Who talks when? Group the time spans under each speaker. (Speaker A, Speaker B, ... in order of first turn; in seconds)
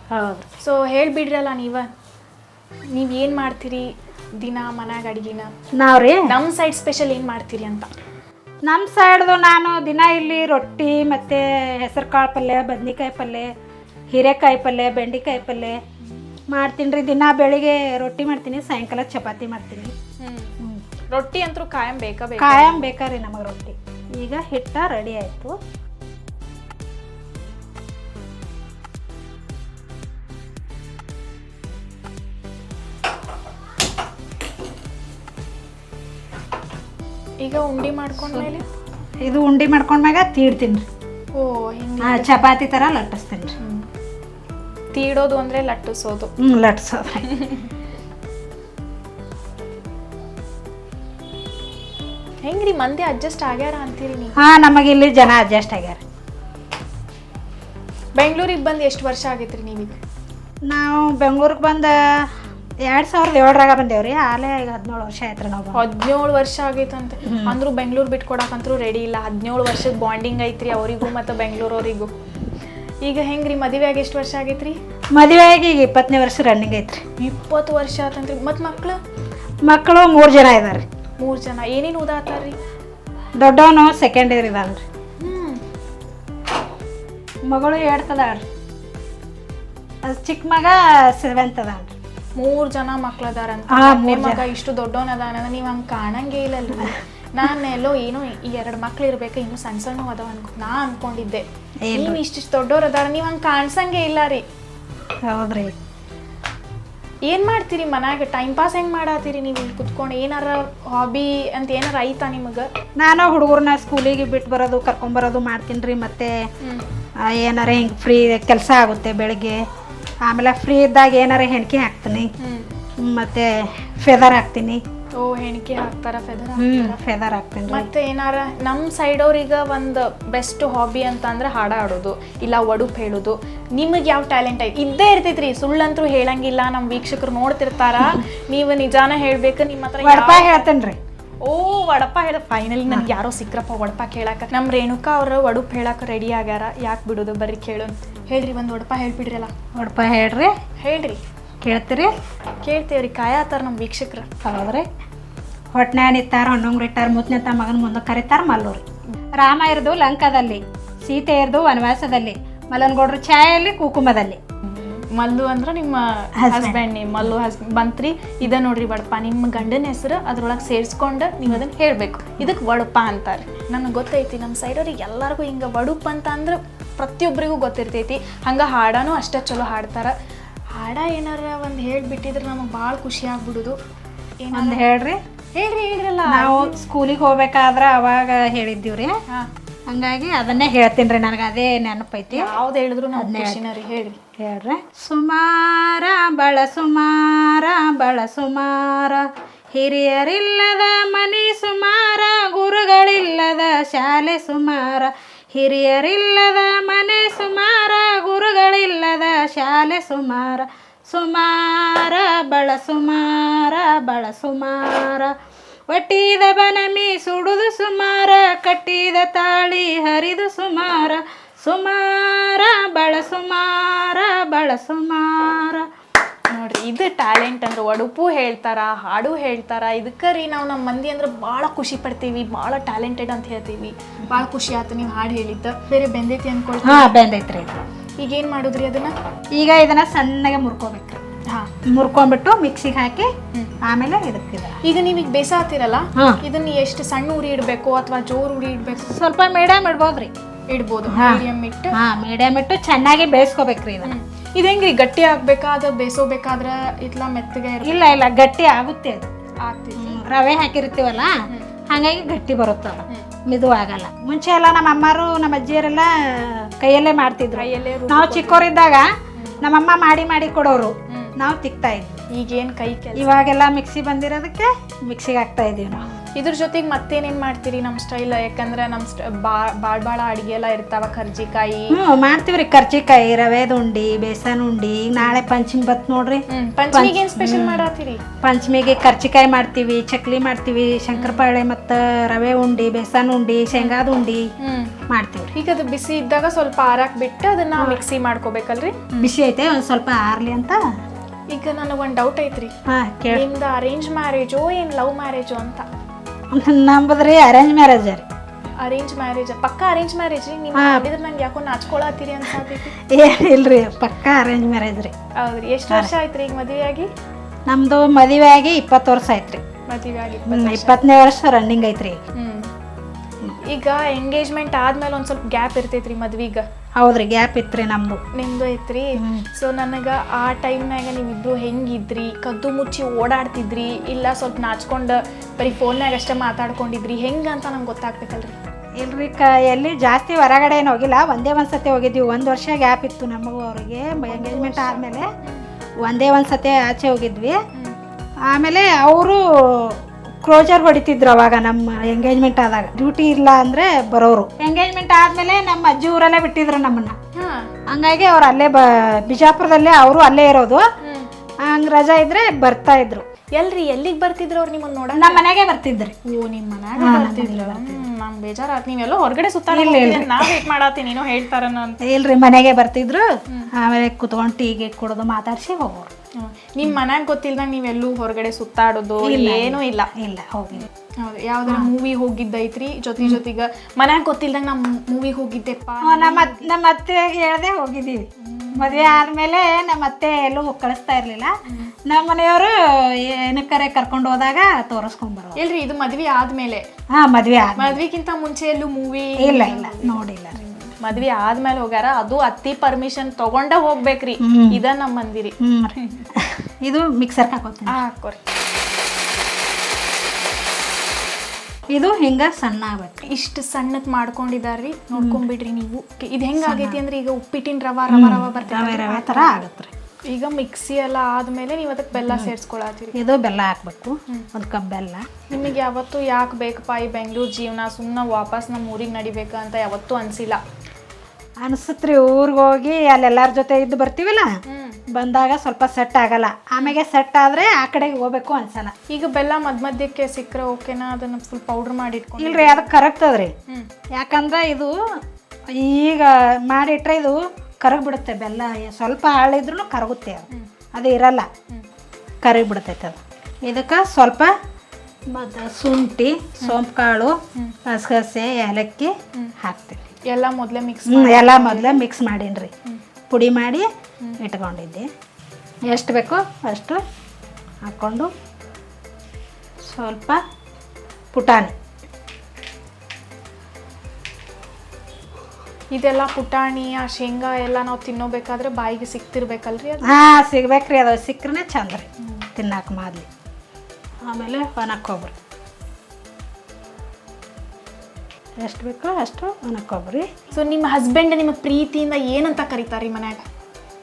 Speaker A: 0.1-0.5, 5.8-6.3, 8.7-13.5, 14.1-15.8, 16.5-19.9, 22.4-25.6, 38.2-38.5, 39.2-40.8, 42.0-43.5, 46.4-47.3, 54.4-56.0, 60.7-65.8, 67.2-67.6, 75.1-77.0, 79.6-80.8, 83.4-84.8, 87.5-88.5, 90.0-91.9, 93.7-94.5, 101.8-102.2, 105.2-105.8, 113.0-116.5, 117.2-119.6, 120.2-122.3, 123.0-124.8, 126.6-127.9, 140.0-141.0, 149.7-150.5, 151.6-152.1, 154.4-154.9, 155.7-158.8, 159.4-164.4, 166.4-166.8, 184.5-185.2, 186.3-189.2, 189.9-192.5, 193.2-193.6, 194.4-215.3, 215.9-225.9, 236.8-237.8, 239.6-241.2, 241.8-244.8, 246.2-246.4, 249.0-250.3, 251.1-254.1, 257.8-259.3, 259.9-272.2, 273.1-276.1, 281.9-287.9, 288.4-294.5, 295.1-295.5, 297.8-298.0, 299.2-300.8, 302.9-303.4, 306.5-308.2, 310.7-311.1, 313.0-315.1, 317.7-319.6, 320.5-322.2, 327.0-328.2, 329.2-329.4, 339.0-345.3, 346.0-347.6, 348.4-357.1, 357.9-360.8, 361.6-363.2, 365.1-366.1, 367.0-368.0, 369.7-370.6, 372.0-376.1, 379.2-380.9, 381.6-381.9, 386.0-395.6, 397.1-398.0, 399.4-400.6, 404.4-404.8, 405.6-408.0, 411.9-413.2, 415.1-415.4, 416.6-417.0, 418.1-419.9, 422.2-422.5, 423.1-425.3, 431.6-434.6, 435.1-438.9, 442.4-443.5, 444.1-451.5, 452.4-454.5, 455.3-460.0, 461.1-462.7, 463.3-463.9, 464.4-465.1, 465.9-467.0, 467.8-468.3, 469.8-470.4, 471.3-471.7, 480.0-483.3, 484.2-485.3, 488.6-490.3
Speaker B: 0.6-1.9, 2.9-5.5, 6.3-7.9, 20.2-20.5, 21.1-22.9, 37.4-38.6, 41.3-42.4, 43.6-43.9, 44.9-46.3, 47.2-47.7, 52.4-54.4, 58.1-60.0, 65.7-72.1, 73.0-74.8, 77.2-79.0, 81.2-82.5, 85.2-85.6, 92.3-104.4, 107.2-112.7, 122.4-122.7, 125.2-127.0, 127.7-140.7, 141.4-149.5, 150.8-151.2, 152.6-154.3, 164.6-180.1, 180.8-183.8, 184.4-184.8, 185.5-186.8, 192.3-194.2, 226.5-237.1, 238.2-239.1, 244.8-249.2, 250.7-251.9, 254.0-258.0, 259.6-260.2, 267.5-268.7, 269.3-269.6, 271.1-271.4, 272.3-273.4, 276.2-282.0, 286.5-288.2, 291.1-291.4, 293.7-294.0, 294.6-294.9, 295.5-299.3, 301.5-302.7, 303.3-305.9, 308.8-312.9, 315.4-317.1, 319.9-321.0, 322.3-322.7, 323.6-326.6, 328.3-338.5, 344.2-345.6, 357.3-357.7, 361.0-361.3, 363.5-365.4, 366.2-372.0, 376.4-380.1, 381.2-386.7, 388.4-389.2, 391.7-391.9, 395.6-396.9, 397.8-406.3, 407.9-408.4, 413.2-419.6, 420.3-423.1, 425.5-430.6, 434.6-435.0, 439.1-442.9, 460.3-462.0, 475.9-480.1, 490.5-493.4